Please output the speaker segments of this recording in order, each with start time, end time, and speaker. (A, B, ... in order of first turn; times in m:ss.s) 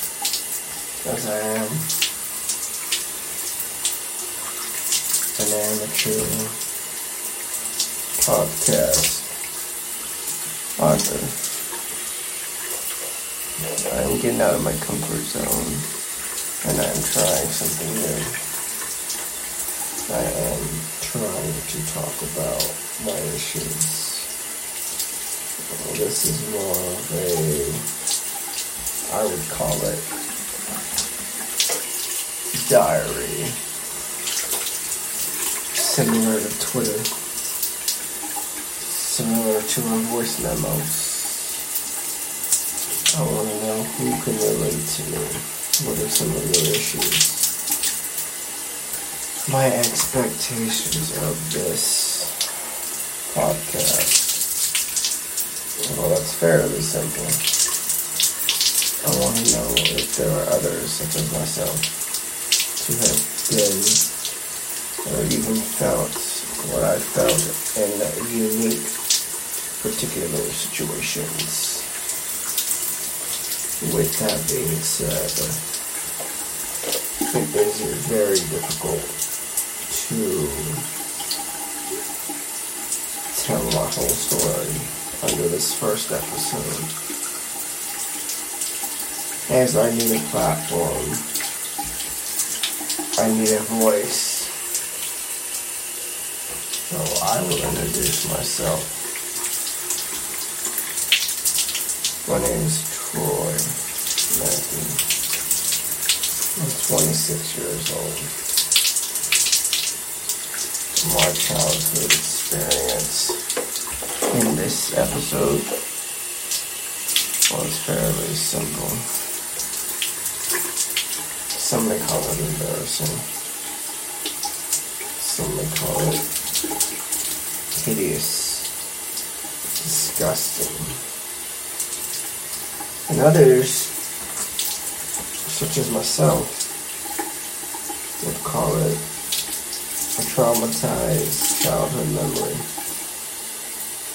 0:01.0-0:01.9 A
0:05.4-0:06.6 A
0:08.2-0:09.3 A
0:10.8-0:11.4 A
0:13.8-0:15.9 A
0:16.6-0:18.4 A
0:20.1-0:24.3 A
0:25.7-0:27.8 A
0:29.1-0:30.1 A
0:32.6-0:33.6 A
0:35.7-0:37.1 A
0:38.8-0:41.6 A
0:43.1-0:47.5 A
0:49.5-0:52.4 A
0:53.3-0:54.4 A
0:55.8-0:57.4 A
0:59.0-1:01.9 A
1:02.8-1:04.0 A
1:05.0-1:08.9 A
1:09.8-1:11.9 A
1:13.8-1:15.6 A
1:17.2-1:19.2 A
1:19.9-1:20.8 A
1:23.3-1:26.9 A
1:29.5-1:31.2 A
1:33.2-1:34.6 A
1:36.9-1:38.9 A
1:42.2-1:43.7 A
1:44.3-1:45.0 A
1:46.6-1:48.3 A
1:50.9-1:53.4 A
1:54.3-1:55.7 A
1:57.5-1:59.1 A
2:01.5-2:03.3 A
2:05.2-2:06.2 A
2:07.7-2:08.7 A
2:09.8-2:11.0 A
2:13.1-2:13.9 A
2:15.4-2:16.7 A
2:18.2-2:19.0 A
2:20.2-2:22.7 A